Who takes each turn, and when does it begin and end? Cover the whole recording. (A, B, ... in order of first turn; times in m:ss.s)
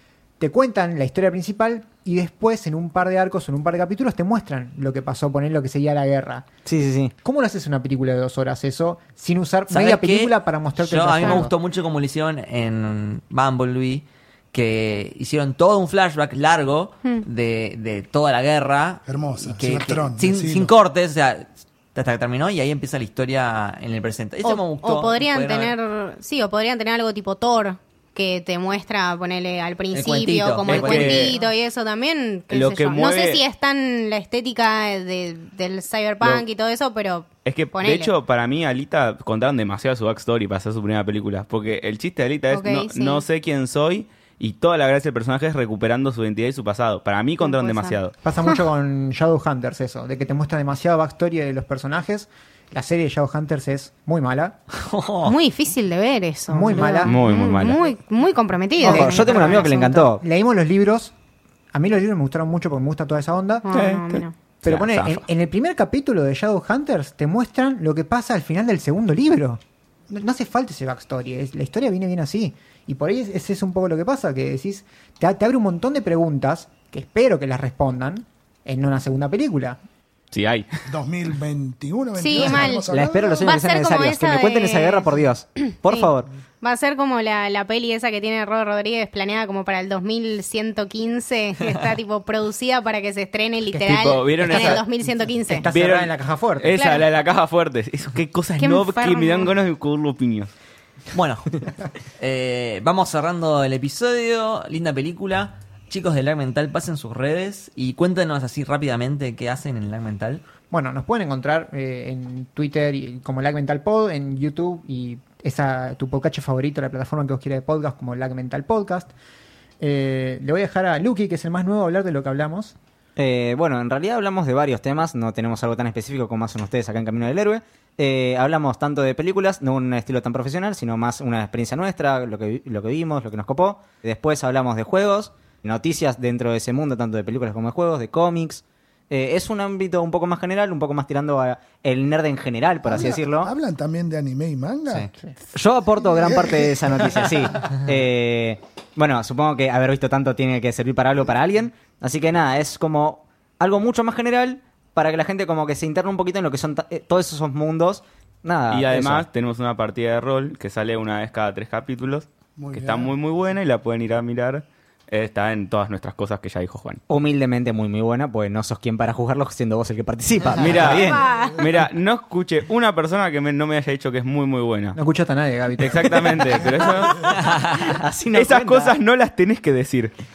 0:00.4-0:06.4 A
0:06.6-0:07.1 B
0:07.2-0:11.5 A
0:09.7-0:25.7 C
0:19.0-0:20.7 D
0:24.4-0:38.1 E
0:29.9-0:31.4 C
0:30.7-0:31.4 F
0:32.5-0:33.4 F
0:37.4-0:48.1 F
0:42.5-0:43.2 E
0:47.4-0:48.0 E
0:48.2-0:54.6 A
0:54.7-0:55.4 C
0:55.2-1:00.0 E
0:56.5-0:57.2 A
0:56.8-0:57.8 F
0:58.8-1:01.1 A
0:58.8-1:00.2 B
1:01.7-1:03.7 A
1:03.6-1:04.3 E
1:03.7-1:05.2 F
1:04.6-1:19.8 A
1:20.3-1:20.8 F
1:20.9-1:23.5 D
1:22.2-1:25.1 E
1:22.4-1:26.3 B
1:25.8-1:26.1 E
1:26.6-1:35.7 E
1:33.7-1:34.9 A
1:33.8-1:34.8 F
1:35.4-1:36.7 A
1:35.7-1:40.5 F
1:36.7-1:37.1 E
1:38.6-1:39.5 E
1:41.1-1:50.4 C
1:50.7-1:59.1 A
1:59.8-2:02.7 A
2:03.2-2:23.5 B
2:22.9-2:25.1 D
2:25.5-2:39.3 B
2:26.1-2:27.3 D
2:38.7-2:47.0 F
2:42.6-2:43.1 D
2:47.1-2:51.3 B
2:50.6-2:55.0 F
2:51.0-2:51.6 E
2:55.0-2:56.7 A
2:55.8-2:57.3 F
2:56.8-2:59.0 B
2:57.3-2:58.0 C
2:58.3-3:00.1 F